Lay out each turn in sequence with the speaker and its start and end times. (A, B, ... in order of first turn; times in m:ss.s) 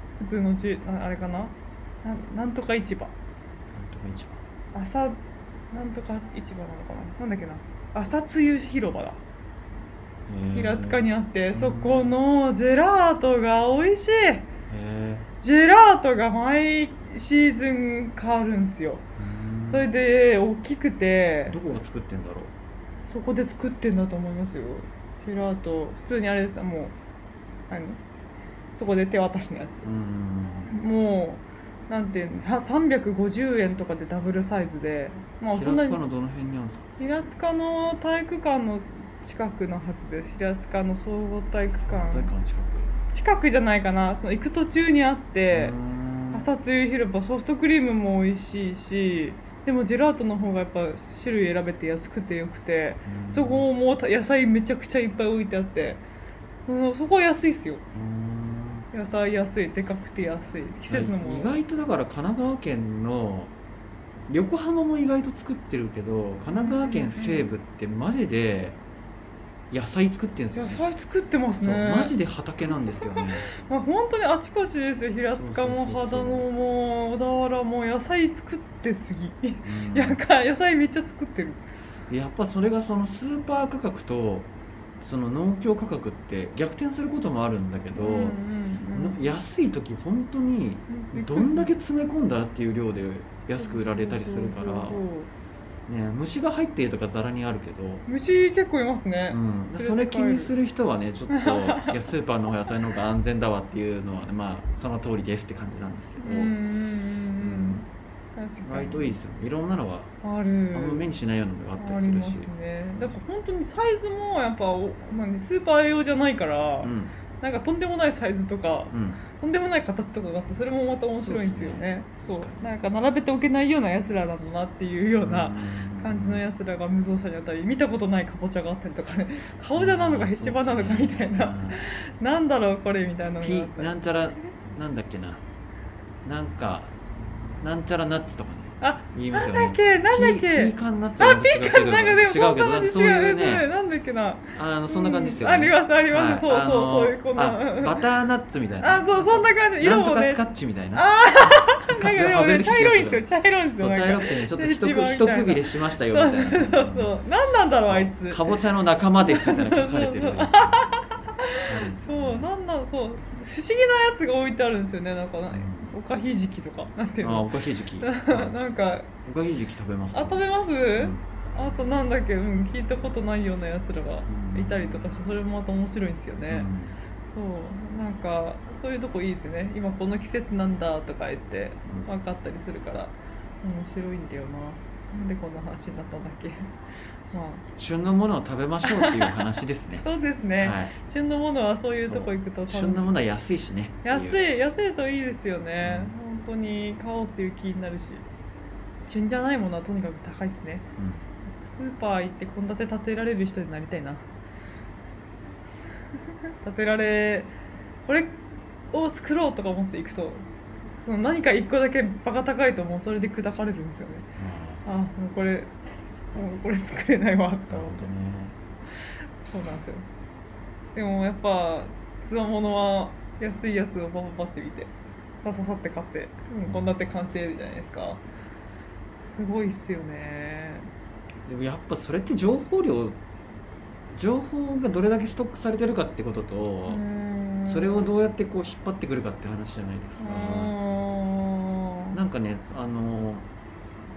0:00.2-0:03.1 A
0:03.7-0:04.4 B
0:04.7-0:05.2 A
0:05.7-0:09.2 A
0:10.3-0:12.2 B
0:10.5-0:14.5 A
0:14.7-0:15.3 B
0:15.4-0:19.0 A
0:19.2-0:19.9 B
0:19.7-0:21.8 A
0:21.5-0:22.5 B
0:23.1-0:27.0 A
0:27.7-0:28.0 A
0:28.8-0:29.9 A
0:29.8-0:30.7 B
0:30.7-0:36.0 A
0:35.5-0:36.9 B
0:37.0-0:42.3 A
0:41.8-0:42.9 B
0:43.1-0:45.8 A
0:45.5-0:46.5 B
0:46.3-0:56.0 A
0:53.1-0:53.7 B
0:56.7-0:57.8 A
0:57.9-0:58.9 B
0:58.9-1:01.5 A
1:00.9-1:03.5 B
1:04.3-1:08.8 B
1:06.5-1:07.5 A
1:09.7-1:10.8 B
1:10.5-1:12.2 A
1:11.6-1:13.5 B
1:12.8-1:21.6 A
1:15.2-1:16.5 B
1:19.6-1:20.2 B
1:22.1-1:28.4 B
1:28.0-1:29.3 A
1:28.9-1:35.0 B
1:30.9-1:31.7 A
1:33.6-1:35.3 A
1:35.9-1:38.0 B
1:38.1-1:40.5 A
1:39.3-1:46.6 B
1:41.3-1:42.0 A
1:46.2-1:49.2 A
1:47.4-1:47.8 B
1:48.6-1:50.1 B
1:50.2-1:51.1 A
1:50.7-1:53.1 B
1:51.8-2:14.0 A
1:56.8-1:57.1 B
1:58.9-1:59.2 B
2:01.2-2:02.7 B
2:05.2-2:06.4 B
2:09.8-2:11.8 B
2:13.4-2:15.4 B
2:16.2-2:17.0 B
2:17.6-2:23.7 B
2:18.8-2:28.0 A
2:24.6-2:37.2 B
2:28.8-2:30.4 A
2:31.0-2:38.6 A
2:37.8-2:40.9 B
2:39.2-2:49.1 A
2:41.6-2:42.5 B
2:45.5-2:45.9 B
2:47.2-2:48.6 B
2:49.2-2:51.3 B
2:50.1-2:56.7 A
2:54.3-2:55.2 B
2:56.5-2:57.0 B
2:57.3-3:06.7 A
3:07.3-3:07.6 A
3:07.8-3:10.0 B
3:08.8-3:09.4 A
3:10.0-3:13.2 A
3:10.6-3:10.9 B
3:12.1-3:14.4 B
3:14.0-3:18.2 A
3:15.8-3:16.1 B
3:19.1-3:20.9 A
3:21.0-3:21.2 B
3:21.6-3:24.3 A
3:26.6-3:27.5 A
3:28.1-3:28.4 A
3:28.9-3:30.4 A
3:31.0-3:34.3 A
3:34.4-3:34.8 B
3:34.8-3:35.7 A
3:36.3-3:38.1 A
3:37.7-3:38.6 B
3:39.4-3:40.0 A
3:41.0-3:48.2 A
3:46.6-3:46.9 B
3:49.2-3:50.9 A
3:51.5-3:53.2 B
3:54.1-3:57.0 B
3:56.9-3:58.1 A
3:57.7-4:00.8 B
4:00.2-4:02.2 A
4:02.1-4:03.5 B